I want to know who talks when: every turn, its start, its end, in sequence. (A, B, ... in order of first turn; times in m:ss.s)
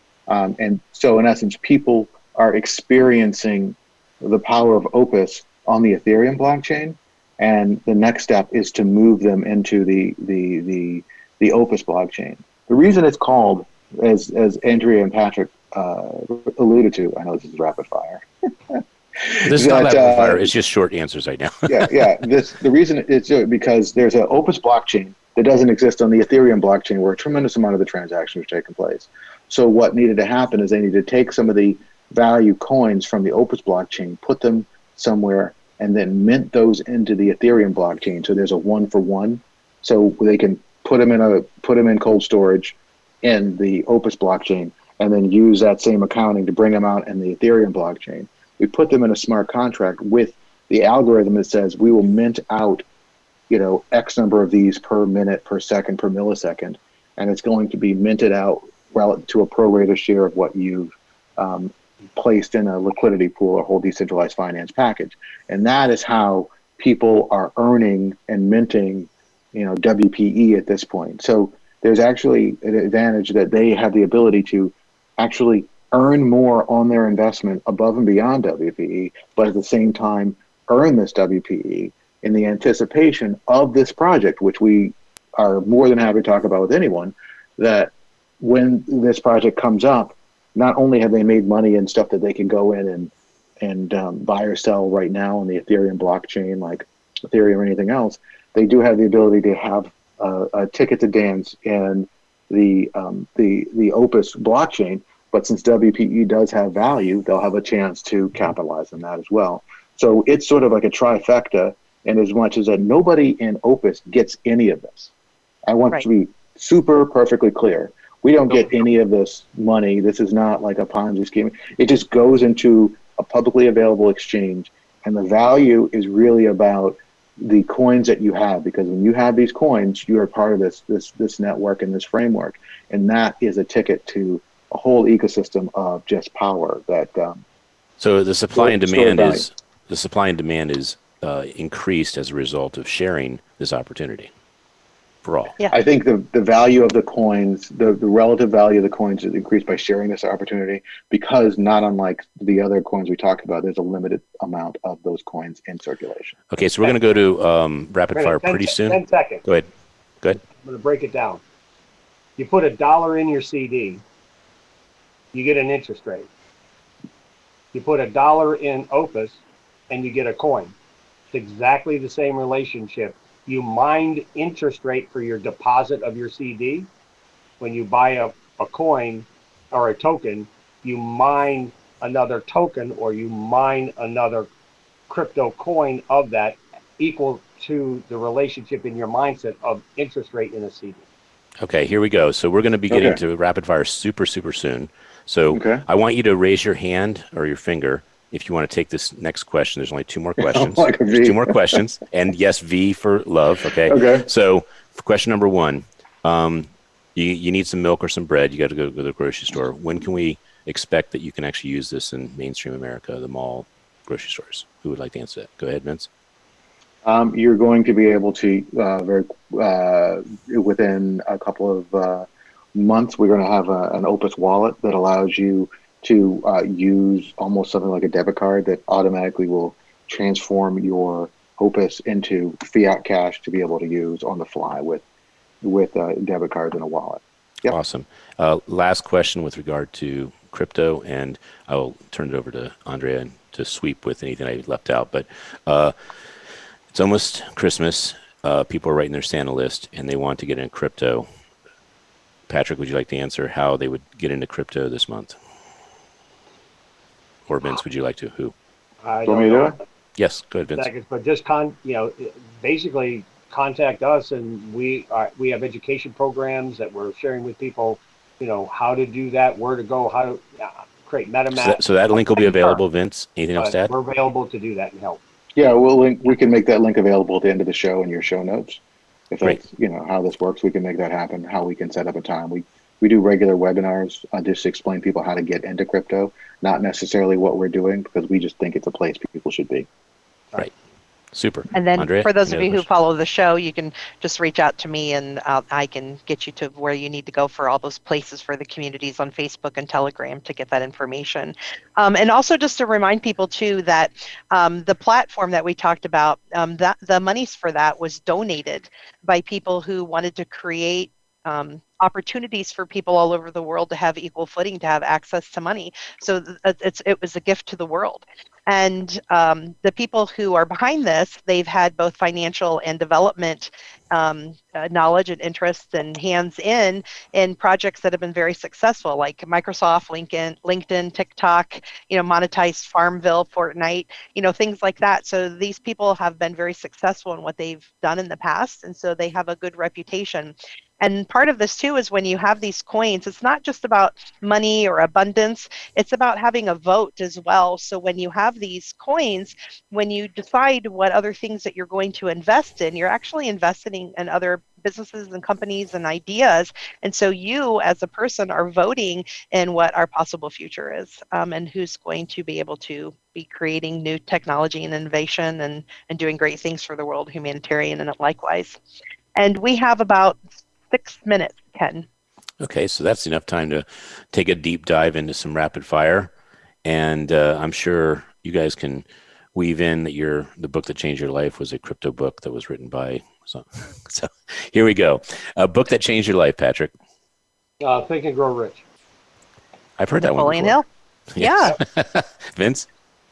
0:00.3-0:20.4 A
0:19.4-0:22.0 B
0:21.7-0:52.8 A
0:53.5-1:55.1 A
1:55.6-2:17.4 A
2:18.0-2:24.3 B
2:18.5-2:19.5 A
2:25.2-2:25.5 B
2:25.7-2:36.4 A
2:36.5-2:39.7 B
2:38.1-2:39.4 C
2:40.5-2:41.4 C
2:42.4-2:44.0 C
2:45.3-2:46.3 C
2:47.7-2:49.4 C
2:49.9-2:50.7 C
2:51.3-2:56.9 C
2:57.6-3:04.5 C
3:05.1-3:11.0 C
3:11.6-3:36.1 B
3:12.9-3:13.2 A
3:15.5-3:15.8 A
3:20.4-3:21.8 A
3:23.8-3:24.3 A
3:37.0-3:55.0 A
3:55.6-3:57.8 A
3:57.7-4:05.9 B
4:06.9-4:11.3 B
4:12.5-4:15.4 B
4:17.5-4:18.5 B
4:19.0-4:19.8 C
4:19.2-4:19.8 A
4:20.2-4:20.9 B
4:20.8-4:31.8 C
4:31.5-4:33.9 B
4:32.4-4:32.8 C
4:33.6-4:35.2 C
4:35.6-4:38.8 A
4:39.3-4:49.9 A
4:51.3-4:52.8 B
4:51.7-6:08.8 D
6:09.4-6:10.4 D
6:10.9-6:12.0 D
6:12.6-6:16.3 B
6:16.8-6:26.9 B
6:27.8-6:28.8 C
6:30.0-6:30.8 B
6:30.2-6:30.8 D
6:31.3-6:32.8 B
6:31.4-6:31.7 D